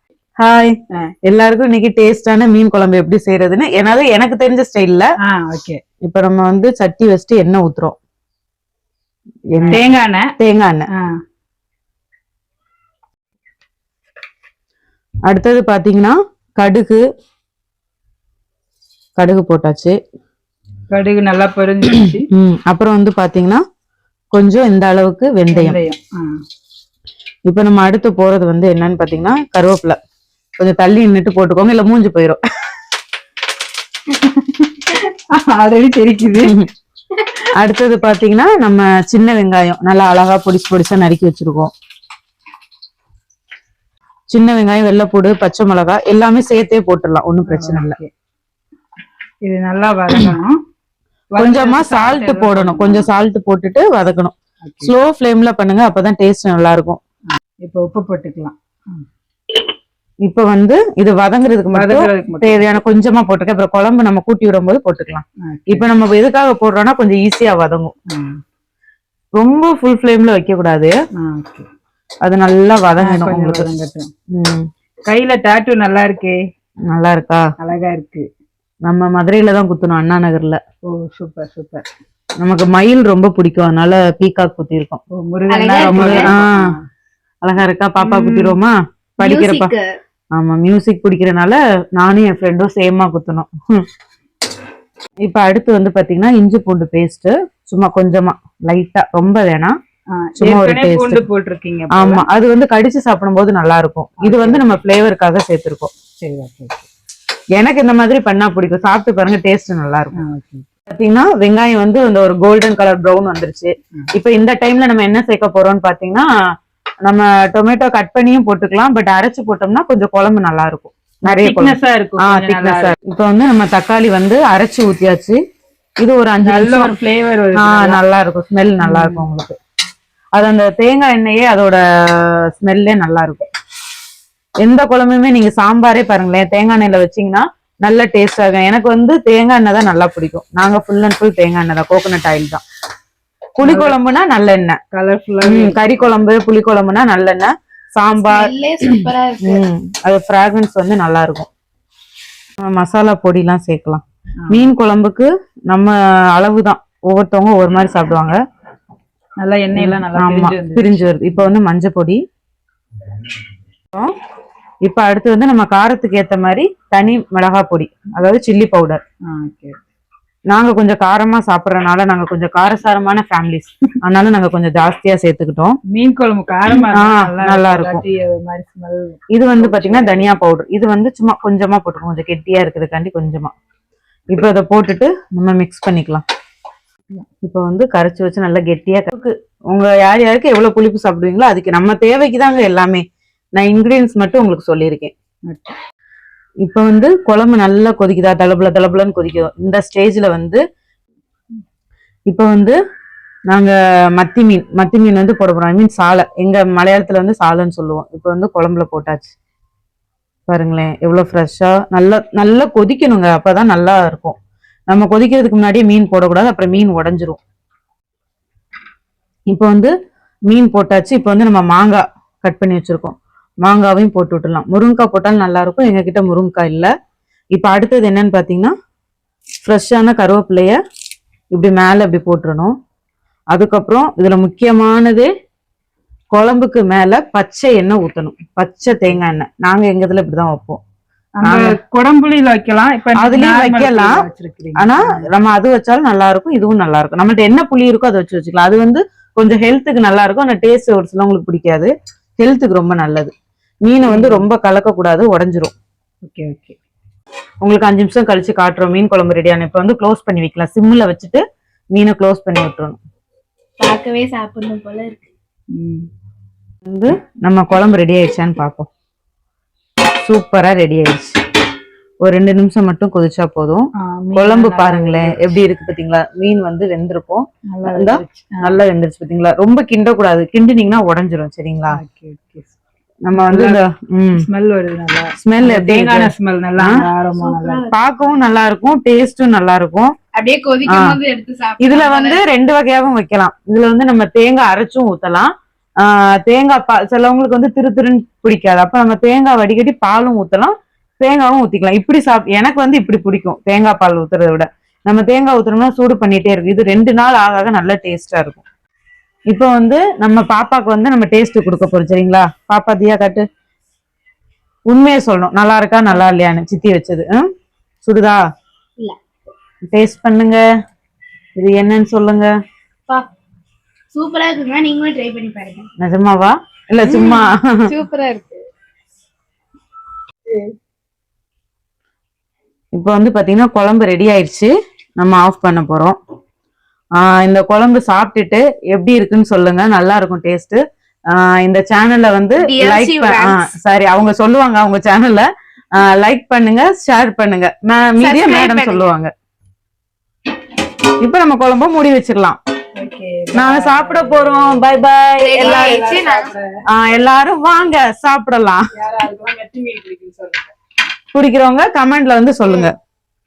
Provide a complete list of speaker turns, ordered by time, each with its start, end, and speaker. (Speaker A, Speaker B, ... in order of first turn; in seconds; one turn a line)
Speaker A: 0.4-0.8
Speaker A: 1.3-5.1
Speaker B: 5.3-5.8
Speaker A: 6.0-8.0
Speaker A: 9.5-9.8
Speaker B: 9.6-10.3
Speaker A: 10.4-10.9
Speaker A: 15.3-17.0
Speaker A: 19.2-19.9
Speaker B: 20.9-22.2
Speaker A: 22.3-23.6
Speaker A: 24.3-25.8
Speaker B: 25.5-26.3
Speaker A: 27.5-30.0
Speaker A: 30.6-32.4
Speaker B: 34.1-36.5
Speaker A: 36.3-36.7
Speaker A: 37.5-41.7
Speaker A: 44.3-48.0
Speaker B: 47.5-48.1
Speaker B: 49.4-50.5
Speaker B: 51.3-53.1
Speaker A: 51.4-57.0
Speaker B: 54.6-54.9
Speaker B: 57.6-59.0
Speaker A: 60.2-67.9
Speaker B: 61.7-62.7
Speaker B: 65.4-65.8
Speaker B: 68.1-68.4
Speaker A: 69.3-70.9
Speaker B: 71.2-71.7
Speaker A: 72.2-73.7
Speaker B: 73.0-74.1
Speaker A: 74.3-74.7
Speaker B: 75.1-76.4
Speaker A: 76.9-77.4
Speaker B: 77.6-78.2
Speaker A: 78.8-80.6
Speaker B: 80.9-81.8
Speaker A: 82.4-85.0
Speaker B: 85.2-86.8
Speaker C: 85.5-86.3
Speaker A: 85.7-86.7
Speaker A: 87.4-89.7
Speaker C: 88.0-88.5
Speaker C: 89.2-89.9
Speaker A: 90.3-93.8
Speaker A: 95.2-99.8
Speaker B: 100.2-102.2
Speaker A: 100.4-101.2
Speaker A: 101.9-105.9
Speaker B: 104.2-104.8
Speaker B: 106.2-106.9
Speaker A: 107.5-110.2
Speaker B: 110.2-110.7
Speaker A: 110.9-116.3
Speaker A: 117.0-125.4
Speaker B: 121.2-122.9
Speaker A: 126.0-126.9
Speaker B: 126.4-128.0
Speaker A: 127.5-129.6
Speaker B: 128.8-129.2
Speaker A: 130.3-133.4
Speaker A: 134.6-142.6
Speaker A: 143.6-144.8
Speaker B: 143.6-143.9
Speaker B: 144.9-146.1
Speaker A: 145.4-151.5
Speaker C: 148.2-149.6
Speaker A: 152.6-158.4
Speaker B: 159.4-160.9
Speaker A: 159.7-162.2
Speaker A: 164.8-169.0
Speaker B: 169.3-169.8
Speaker A: 170.5-175.8
Speaker B: 175.9-180.3
Speaker A: 176.9-178.0
Speaker A: 179.3-183.5
Speaker A: 184.3-186.2
Speaker A: 187.4-193.0
Speaker A: 193.5-195.1
Speaker B: 195.5-195.8
Speaker A: 196.6-200.6
Speaker A: 202.3-202.8
Speaker A: 203.5-209.3
Speaker A: 210.5-214.3
Speaker A: 214.9-217.4
Speaker A: 219.5-219.9
Speaker A: 220.5-226.9
Speaker A: 227.5-228.7
Speaker A: 229.6-230.8
Speaker A: 231.5-232.7
Speaker A: 233.5-235.3
Speaker A: 236.3-240.8
Speaker B: 241.4-245.3
Speaker A: 243.2-244.2
Speaker A: 244.7-253.3
Speaker A: 253.8-255.7
Speaker B: 254.1-254.5
Speaker B: 256.2-256.8
Speaker A: 257.6-263.0
Speaker C: 263.8-265.3
Speaker B: 265.7-266.1
Speaker A: 266.9-268.9
Speaker A: 270.2-271.4
Speaker A: 272.2-282.0
Speaker B: 274.1-275.5
Speaker B: 277.7-278.7
Speaker B: 281.9-282.8
Speaker A: 283.2-284.5
Speaker B: 283.3-283.8
Speaker B: 284.4-287.9
Speaker A: 285.4-287.0
Speaker C: 287.4-287.9
Speaker A: 287.9-290.1
Speaker C: 290.3-292.4
Speaker A: 290.9-291.2
Speaker A: 291.8-308.6
Speaker A: 309.5-313.4
Speaker A: 314.9-317.5
Speaker A: 318.0-318.4
Speaker A: 319.9-320.6
Speaker A: 321.6-322.5
Speaker C: 324.1-325.9
Speaker A: 326.0-327.9
Speaker C: 327.0-328.6
Speaker C: 330.5-330.7
Speaker A: 332.9-336.1
Speaker A: 337.2-340.8
Speaker A: 341.3-349.3
Speaker C: 342.6-343.6
Speaker C: 348.2-349.1
Speaker A: 351.2-352.6
Speaker B: 353.0-356.6
Speaker A: 353.6-356.0
Speaker C: 355.4-356.5
Speaker A: 356.9-358.8
Speaker B: 358.9-360.7
Speaker A: 361.3-362.9